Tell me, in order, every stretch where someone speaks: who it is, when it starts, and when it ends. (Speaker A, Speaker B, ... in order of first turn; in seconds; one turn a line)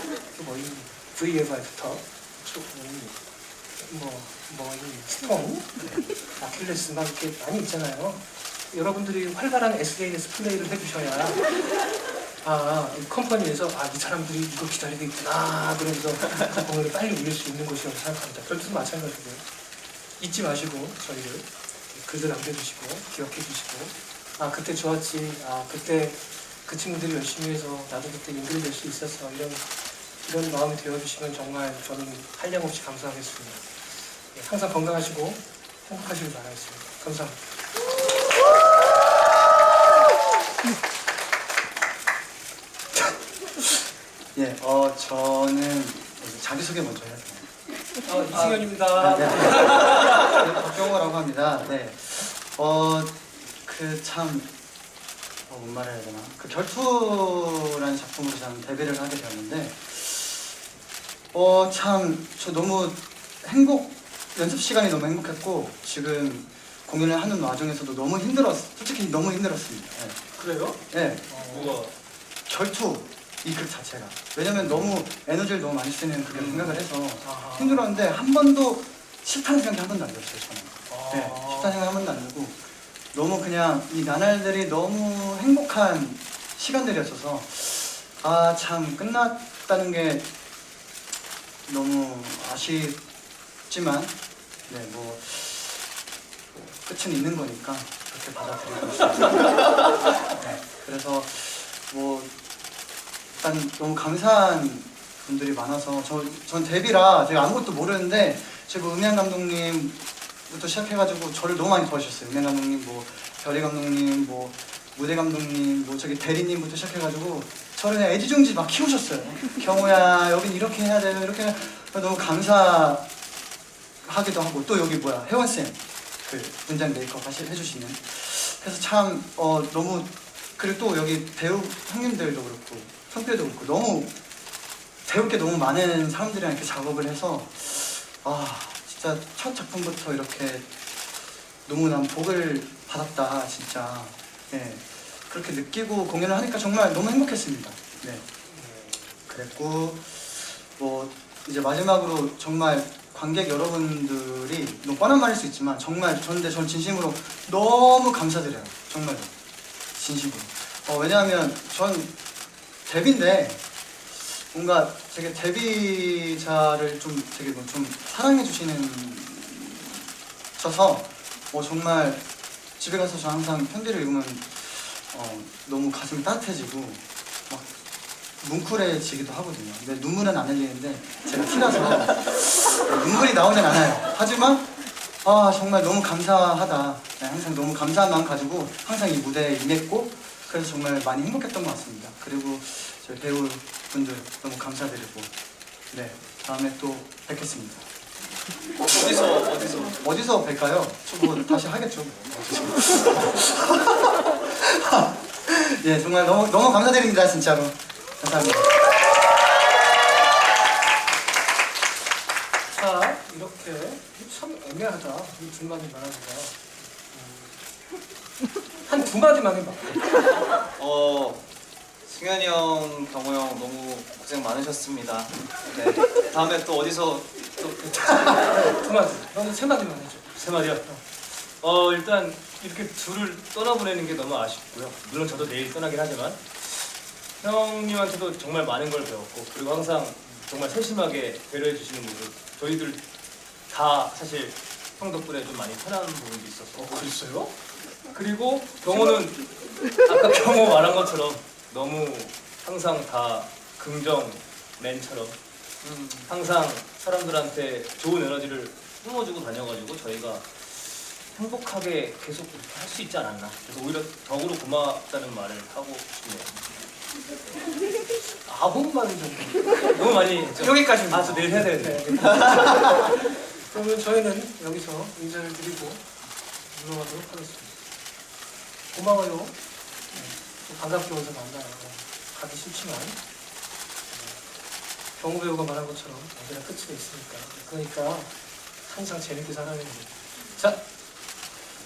Speaker A: 0.3-3.2
Speaker A: 3.8-11.5
Speaker A: 12.4-19.4
Speaker A: 20.2-29.6
Speaker A: 30.2-33.7
Speaker A: 34.3-37.4
Speaker B: 43.0-43.8
Speaker B: 44.4-47.5
Speaker A: 48.0-50.5
Speaker B: 48.3-54.5
Speaker B: 55.5-60.5
Speaker B: 61.3-70.2
Speaker A: 70.3-71.8
Speaker B: 70.9-71.3
Speaker C: 71.5-71.9
Speaker B: 72.5-82.6
Speaker A: 77.2-77.9
Speaker A: 80.9-81.8
Speaker B: 83.1-90.3
Speaker B: 91.7-93.0
Speaker B: 93.7-94.1
Speaker B: 94.7-95.8
Speaker B: 96.5-102.3
Speaker B: 103.4-123.1
Speaker B: 124.0-134.2
Speaker B: 135.1-140.7
Speaker B: 141.7-148.2
Speaker A: 148.6-149.1
Speaker B: 149.3-159.3
Speaker B: 159.9-162.1
Speaker B: 162.9-163.6
Speaker B: 164.1-172.2
Speaker B: 172.8-177.7
Speaker B: 178.4-184.7
Speaker B: 185.2-195.3
Speaker B: 195.9-197.9
Speaker D: 199.0-199.7
Speaker C: 199.2-199.8
Speaker B: 199.9-208.8
Speaker A: 212.7-217.6
Speaker A: 218.8-220.2
Speaker C: 220.8-221.4
Speaker D: 220.8-221.2
Speaker D: 222.1-227.8
Speaker A: 227.8-231.0
Speaker C: 230.3-230.9
Speaker C: 231.6-236.9
Speaker C: 237.4-243.0
Speaker C: 243.7-247.1
Speaker A: 246.8-247.5
Speaker C: 248.1-249.4
Speaker C: 250.0-255.4
Speaker D: 255.8-256.3
Speaker C: 256.3-260.7
Speaker C: 261.3-266.6
Speaker A: 268.1-269.9
Speaker C: 269.9-273.1
Speaker A: 270.5-276.0
Speaker A: 276.7-277.7
Speaker A: 278.9-279.6
Speaker A: 280.1-283.2
Speaker A: 284.1-284.4
Speaker A: 285.2-290.8